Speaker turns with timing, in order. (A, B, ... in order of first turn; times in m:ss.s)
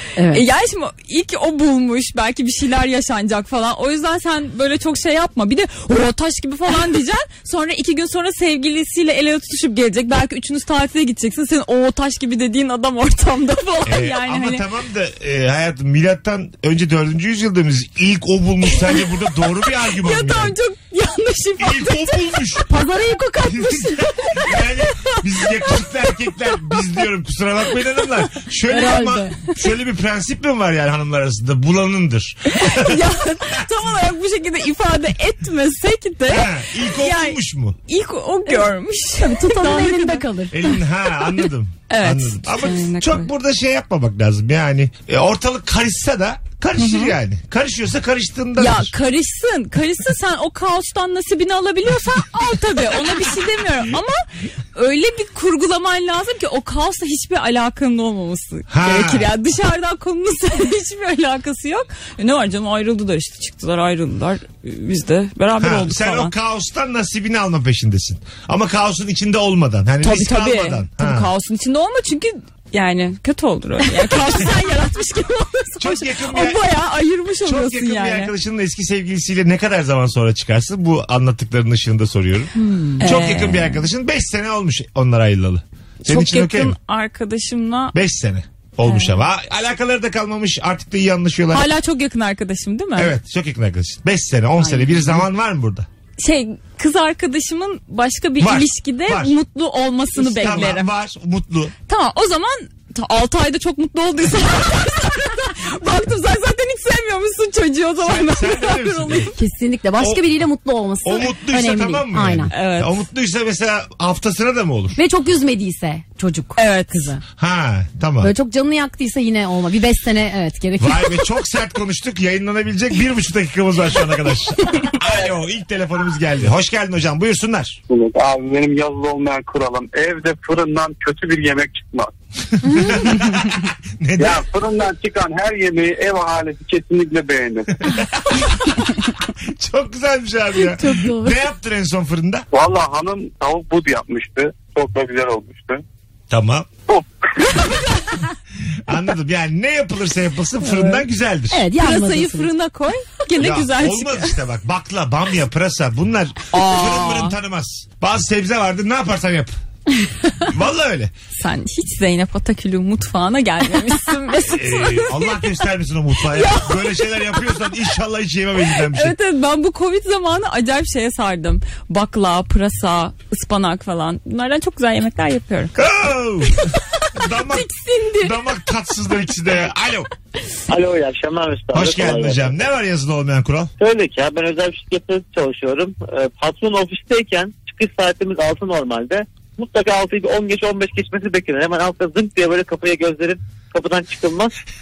0:00.2-0:00.4 A
0:00.3-0:14.6 B
0:13.8-0:20.5 C
0:19.9-0:22.1 B
0:21.6-0:22.7 C
0:22.7-0:24.0 A
0:23.5-0:33.0 C
0:28.7-0:29.5 A
0:32.5-0:40.2 B
0:36.3-0:37.8 C
0:39.2-0:40.6 A
0:40.5-0:48.9 C
0:41.9-0:43.3 B
0:46.8-0:47.1 B
0:48.6-1:06.3 B
0:58.7-0:59.3 C
1:05.6-1:11.3 C
1:10.0-1:18.3 B
1:15.8-1:16.7 C
1:17.4-1:26.8 C
1:22.7-1:23.9 B
1:26.0-1:27.9 B
1:27.9-1:31.7 C
1:28.8-1:29.2 B
1:31.5-1:33.1 B
1:33.0-1:35.9 C
1:34.6-1:35.2 B
1:36.2-1:40.9 B
1:38.4-1:39.4 C
1:40.1-1:41.7 C
1:41.9-1:49.3 B
1:48.0-1:49.3 C
1:49.3-1:52.5 A
1:50.0-1:50.2 C
1:51.0-1:55.0 C
1:52.5-1:52.9 B
1:55.0-1:57.2 A
1:56.6-1:57.2 B
1:57.4-1:58.3 C
1:58.2-2:01.2 A
2:00.8-2:07.8 C
2:07.9-2:12.1 D
2:12.6-2:14.4 C
2:14.2-2:17.7 D
2:18.0-2:18.4 C
2:19.4-2:22.4 C
2:20.6-2:21.4 A
2:22.5-2:25.8 D
2:26.3-2:26.7 C
2:26.9-2:27.6 D
2:28.9-2:31.6 C
2:30.6-2:32.5 A
2:31.8-2:34.4 B
2:33.4-2:39.5 C
2:36.5-2:37.3 B
2:40.4-2:41.1 C
2:41.3-2:45.4 B
2:44.5-2:49.2 C
2:46.3-2:46.9 B
2:48.9-2:55.8 B
2:55.7-3:00.1 C
3:00.7-3:02.6 E
3:01.7-3:03.7 C
3:03.8-3:14.5 E